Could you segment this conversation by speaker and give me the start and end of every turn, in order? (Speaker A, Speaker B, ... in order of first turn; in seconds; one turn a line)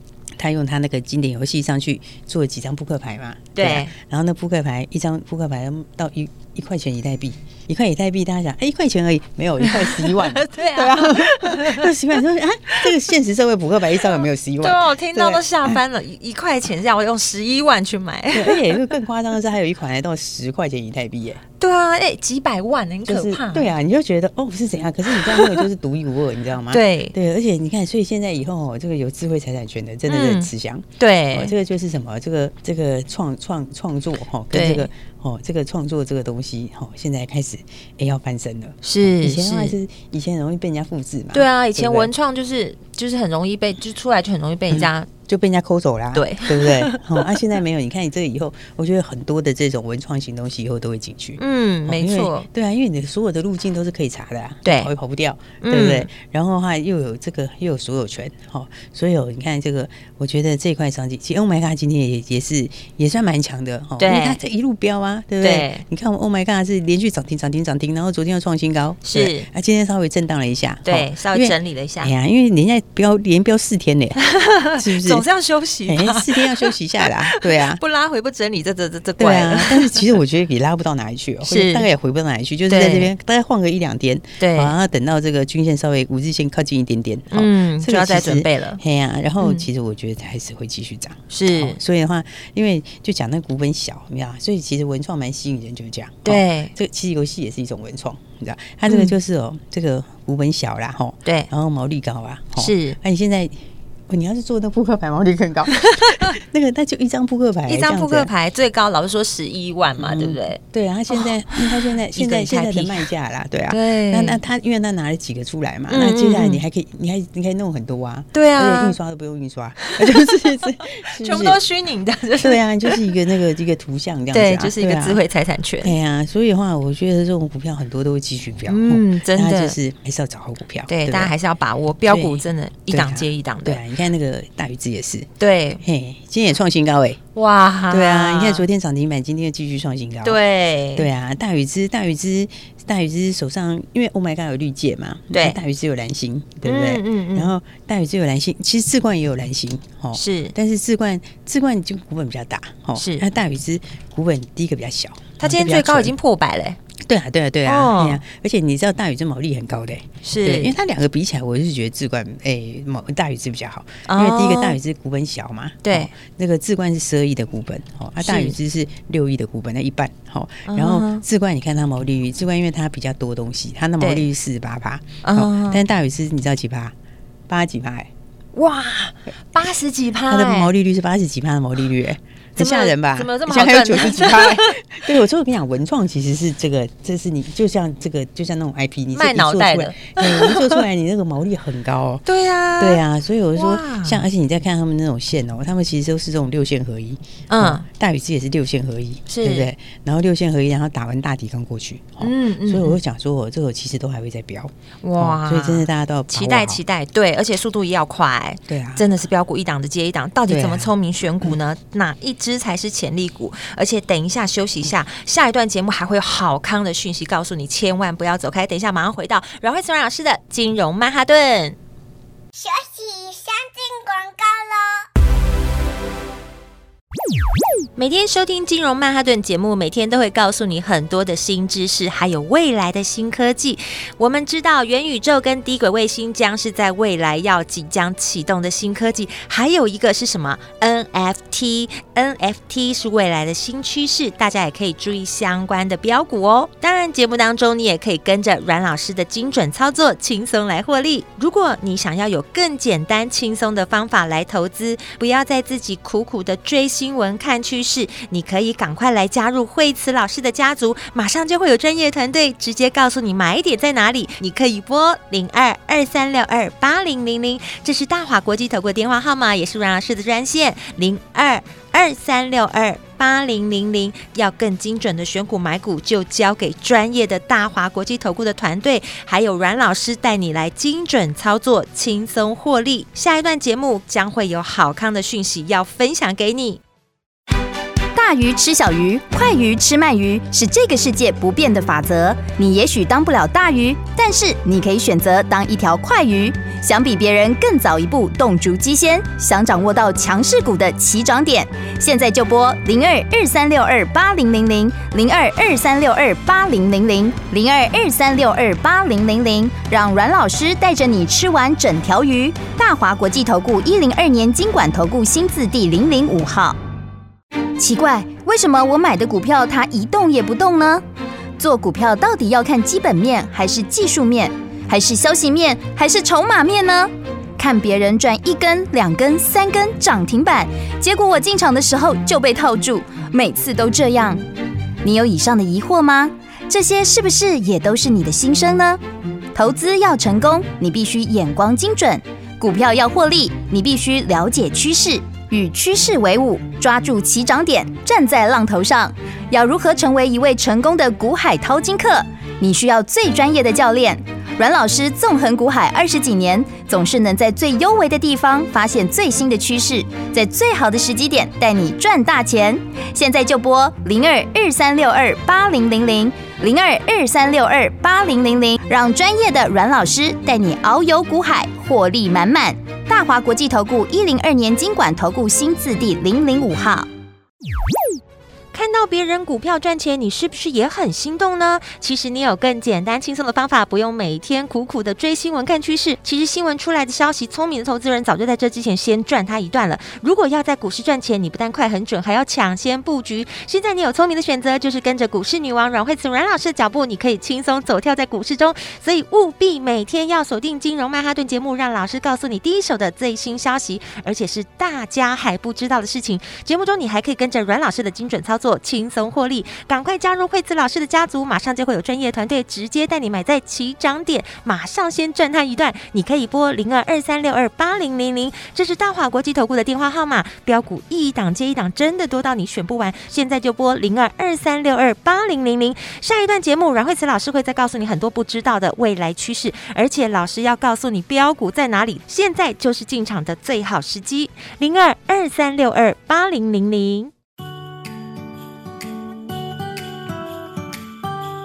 Speaker A: 0.4-15.8
Speaker B: 3.5-3.9
Speaker B: 9.6-11.9
Speaker B: 14.6-18.8
Speaker A: 18.3-21.4
Speaker B: 21.6-23.7
Speaker A: 23.1-42.1
Speaker B: 25.1-25.7
Speaker B: 26.7-27.1
Speaker B: 30.1-31.5
Speaker B: 34.5-34.9
Speaker B: 38.8-39.7
Speaker B: 41.3-45.1
Speaker A: 44.7-74.2
Speaker B: 46.1-47.4
Speaker B: 51.4-52.5
Speaker B: 54.6-54.9
Speaker B: 55.6-56.1
Speaker B: 64.0-64.4
Speaker B: 65.4-65.8
Speaker B: 69.0-69.5
Speaker B: 70.8-72.1
Speaker B: 74.2-80.1
Speaker A: 74.7-75.2
Speaker A: 75.9-77.8
Speaker A: 79.2-108.3
Speaker B: 81.4-81.9
Speaker B: 82.7-83.1
Speaker B: 84.4-84.7
Speaker B: 87.3-88.8
Speaker B: 89.4-89.7
Speaker B: 91.3-91.8
Speaker B: 96.2-96.7
Speaker B: 98.9-99.1
Speaker B: 101.2-101.5
Speaker B: 102.6-103.0
Speaker B: 105.7-106.3
Speaker B: 107.7-110.6
Speaker A: 110.0-121.6
Speaker B: 111.1-113.0
Speaker B: 113.7-114.4
Speaker B: 115.9-116.6
Speaker B: 118.3-119.0
Speaker B: 119.8-123.1
Speaker A: 122.4-125.2
Speaker B: 124.3-125.9
Speaker A: 125.8-131.3
Speaker B: 128.7-129.8
Speaker B: 130.9-133.8
Speaker A: 132.1-137.2
Speaker B: 135.4-135.8
Speaker B: 137.3-138.6
Speaker A: 137.9-140.4
Speaker B: 140.2-141.1
Speaker A: 140.9-156.1
Speaker B: 145.3-145.6
Speaker B: 146.6-147.5
Speaker B: 150.1-150.5
Speaker B: 153.0-153.2
Speaker B: 155.4-156.8
Speaker A: 157.0-176.9
Speaker B: 157.7-158.2
Speaker B: 160.2-160.7
Speaker B: 164.1-164.8
Speaker B: 165.8-166.1
Speaker B: 168.2-168.6
Speaker B: 170.7-171.2
Speaker B: 174.0-174.3
Speaker B: 175.2-175.8
Speaker A: 177.5-178.1
Speaker B: 178.5-180.7
Speaker A: 180.2-192.2
Speaker B: 182.6-185.0
Speaker B: 189.1-190.8
Speaker B: 192.2-193.0
Speaker A: 192.8-206.8
Speaker B: 193.6-194.2
Speaker B: 197.5-197.8
Speaker B: 199.3-199.7
Speaker B: 202.2-203.0
Speaker B: 205.0-221.8
Speaker A: 208.7-209.1
Speaker A: 210.5-210.9
Speaker C: 222.6-225.0
Speaker B: 227.9-286.8
Speaker D: 288.1-316.8
Speaker D: 317.8-321.0
Speaker D: 321.6-334.4
Speaker D: 335.0-339.0
Speaker D: 339.5-377.1
Speaker B: 378.7-437.3